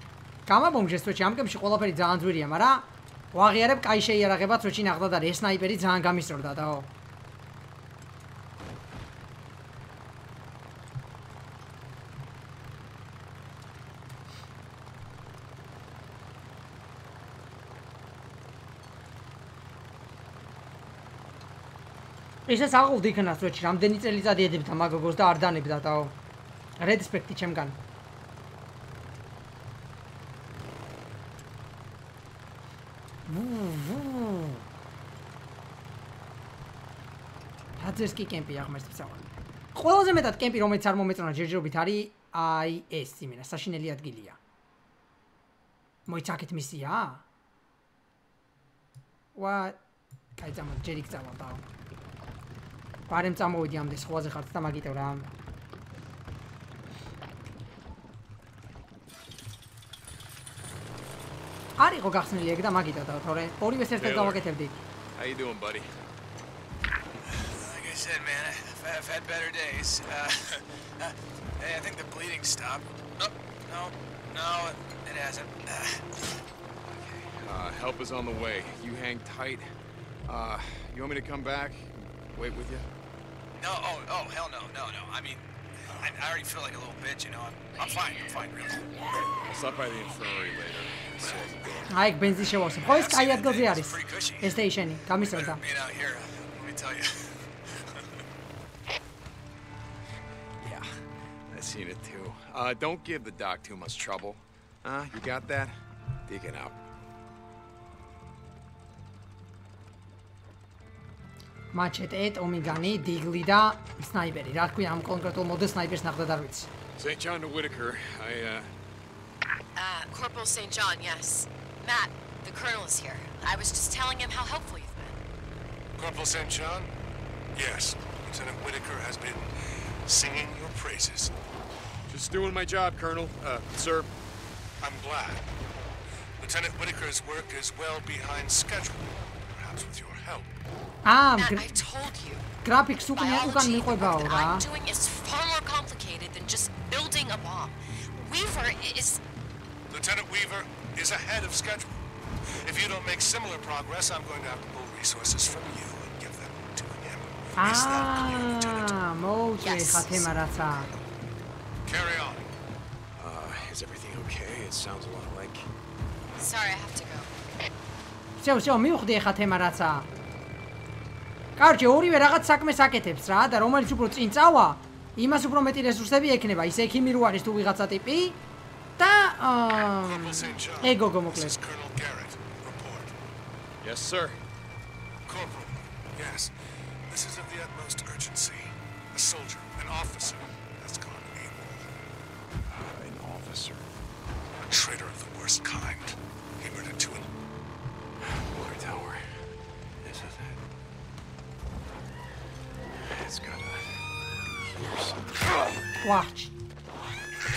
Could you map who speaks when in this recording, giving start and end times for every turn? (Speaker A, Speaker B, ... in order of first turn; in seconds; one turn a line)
Speaker A: 0.5-6.9
Speaker A: 22.5-26.1
Speaker A: 26.8-27.8
Speaker A: 33.3-34.6
Speaker A: 37.8-44.4
Speaker A: 46.1-47.2
Speaker A: 49.4-49.8
Speaker A: 50.4-51.6
Speaker A: 53.1-55.3
Speaker A: 61.8-64.7
Speaker B: 64.0-64.4
Speaker B: 65.1-65.9
Speaker C: 67.2-76.2
Speaker B: 76.9-79.7
Speaker B: 80.2-82.9
Speaker C: 83.6-88.9
Speaker B: 89.3-91.9
Speaker C: 91.2-91.5
Speaker A: 91.9-95.6
Speaker C: 92.8-94.6
Speaker C: 95.2-97.5
Speaker B: 100.6-100.9
Speaker B: 101.5-106.8
Speaker A: 111.7-116.7
Speaker B: 117.0-118.7
Speaker D: 119.7-125.1
Speaker E: 126.0-126.9
Speaker E: 127.5-131.3
Speaker B: 132.1-134.1
Speaker E: 134.8-135.4
Speaker E: 136.4-140.5
Speaker A: 141.1-141.7
Speaker D: 141.4-142.5
Speaker A: 142.6-144.6
Speaker D: 143.1-149.2
Speaker E: 149.9-152.0
Speaker E: 152.6-159.0
Speaker A: 157.6-160.9
Speaker D: 159.6-160.9
Speaker E: 161.8-162.5
Speaker B: 163.2-165.7
Speaker D: 166.4-167.3
Speaker A: 168.4-170.1
Speaker A: 171.6-178.4
Speaker A: 179.0-181.6
Speaker E: 180.0-183.1
Speaker B: 183.8-184.4
Speaker E: 185.2-186.6
Speaker E: 187.1-191.9
Speaker B: 192.7-193.9
Speaker E: 194.6-197.3
Speaker B: 198.2-199.5
Speaker B: 200.0-200.6
Speaker B: 202.9-205.7
Speaker A: 206.0-206.5